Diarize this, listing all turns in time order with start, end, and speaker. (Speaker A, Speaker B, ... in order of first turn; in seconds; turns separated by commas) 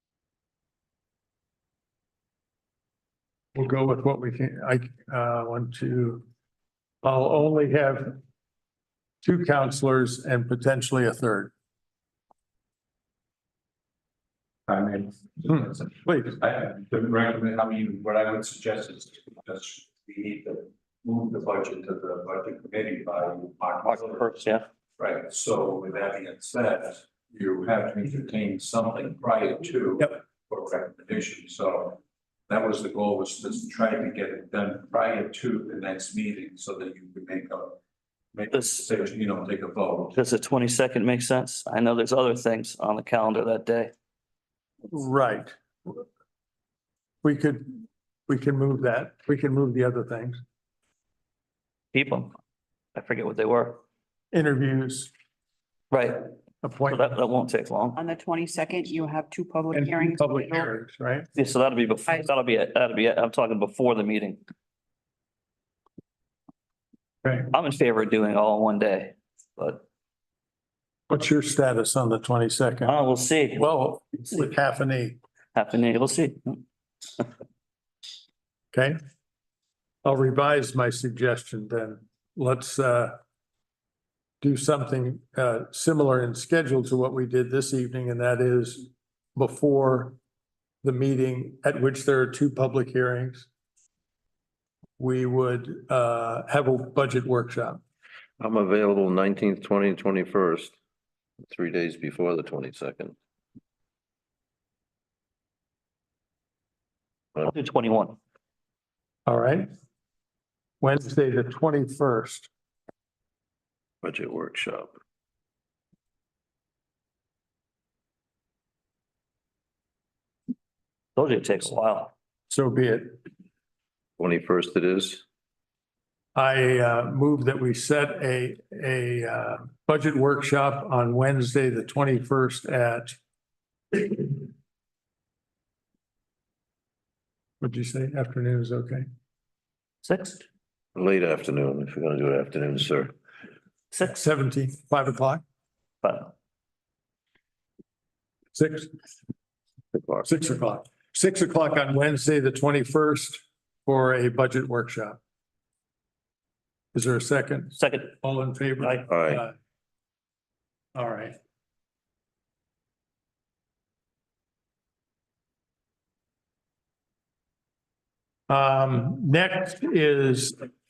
Speaker A: 3.5-6.2, Speaker A: 7.0-8.2, Speaker A: 9.2-11.5, Speaker B: 14.7-37.8, Speaker A: 15.5-16.4, Speaker C: 23.9-24.6, Speaker B: 38.3-40.2, Speaker C: 38.5-38.9, Speaker C: 40.1-43.9, Speaker A: 44.9-46.0, Speaker A: 47.2-50.4, Speaker C: 51.9-52.3, Speaker C: 53.0-53.8, Speaker A: 54.3-55.1, Speaker C: 55.9-56.2, Speaker A: 56.6-57.1, Speaker C: 56.9-58.0, Speaker D: 58.0-60.7, Speaker A: 59.7-61.3, Speaker C: 61.4-64.4, Speaker C: 67.5-69.8, Speaker A: 71.1-73.0, Speaker C: 72.8-73.7, Speaker A: 73.6-75.2, Speaker C: 75.5-76.6, Speaker A: 80.0-83.2, Speaker A: 84.4-90.2, Speaker A: 90.8-93.5, Speaker A: 95.0-97.8, Speaker E: 98.4-100.8, Speaker E: 101.5-103.2, Speaker C: 107.4-108.2, Speaker A: 109.3-109.7, Speaker A: 110.8-112.5, Speaker E: 114.0-114.9, Speaker C: 121.2-122.1, Speaker A: 122.5-123.2, Speaker E: 124.2-125.2, Speaker A: 126.3-133.2, Speaker A: 133.9-134.4, Speaker A: 137.6-139.1, Speaker C: 140.0-140.4, Speaker E: 140.9-143.1, Speaker A: 144.0-145.4, Speaker C: 146.0-146.3, Speaker A: 148.5-148.9, Speaker E: 149.9-150.3, Speaker A: 150.2-155.2, Speaker A: 156.9-159.5, Speaker C: 157.8-158.1, Speaker C: 158.8-159.1, Speaker E: 159.1-159.4, Speaker A: 160.9-161.4, Speaker A: 168.5-170.6